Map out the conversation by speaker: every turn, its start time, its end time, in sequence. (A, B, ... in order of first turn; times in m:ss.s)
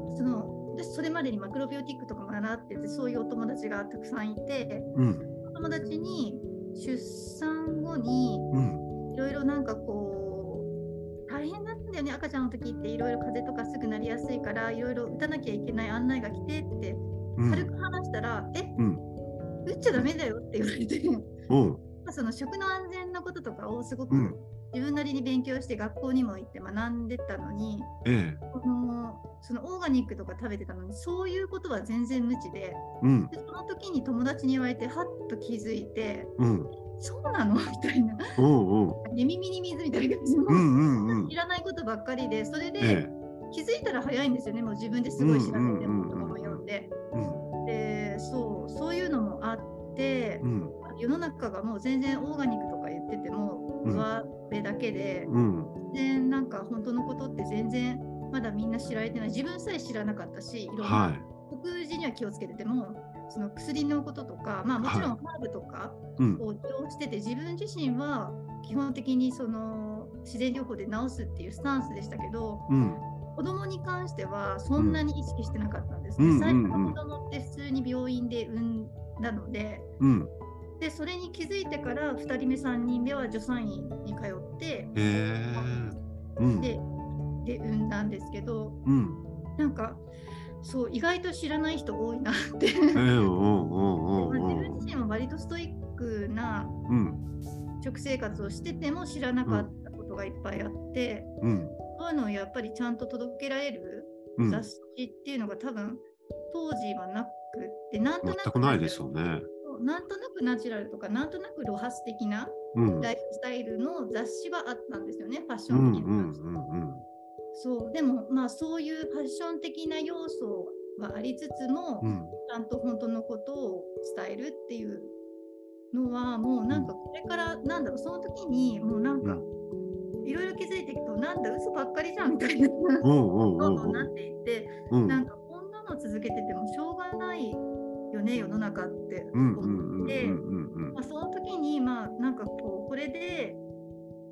0:00.1-0:04.9 A
0:04.9-0:05.2 B
0:05.4-0:08.5 A
0:08.5-0:08.8 B
0:09.1-0:10.7 A
0:11.3-0:18.8 A
0:17.4-0:17.7 B
0:18.8-0:19.0 B
0:19.6-0:21.3 A
0:21.5-0:21.8 B
0:22.0-0:27.9 A
0:24.1-0:24.4 B
0:28.0-0:28.4 B
0:28.5-0:38.3 A
0:33.0-0:33.3 B
0:36.4-0:36.7 B
0:38.4-0:39.0 B
0:39.0-0:46.9 A
0:40.5-0:41.3 B
0:42.8-0:43.1 B
0:45.2-0:46.6 B
0:47.1-0:47.4 B
0:47.6-0:55.3 A
0:50.4-0:50.7 B
0:55.2-0:55.7 B
0:55.9-1:12.7 A
1:00.8-1:01.2 B
1:04.8-1:05.1 B
1:12.7-1:13.0 B
1:13.3-1:19.9 A
1:16.2-1:17.0 B
1:20.0-1:20.3 B
1:20.8-1:24.9 A
1:24.9-1:26.7 B
1:25.6-1:25.8 A
1:26.6-1:26.8 A
1:27.4-1:28.8 A
1:28.8-1:29.2 B
1:29.6-1:30.0 A
1:30.6-1:33.1 A
1:32.9-1:34.8 B
1:34.1-1:36.8 A
1:36.9-1:37.2 B
1:37.8-1:41.3 A
1:39.4-1:39.7 B
1:41.4-1:41.8 B
1:41.9-1:56.4 A
1:44.4-1:44.6 B
1:48.2-1:49.5 B
1:52.7-1:53.1 B
1:55.7-1:57.0 B
1:57.5-2:05.1 A
2:02.0-2:02.4 B
2:05.9-2:09.5 A
2:10.2-2:20.4 A
2:13.0-2:14.1 B
2:14.9-2:15.2 B
2:19.3-2:21.0 B
2:20.9-2:23.6 A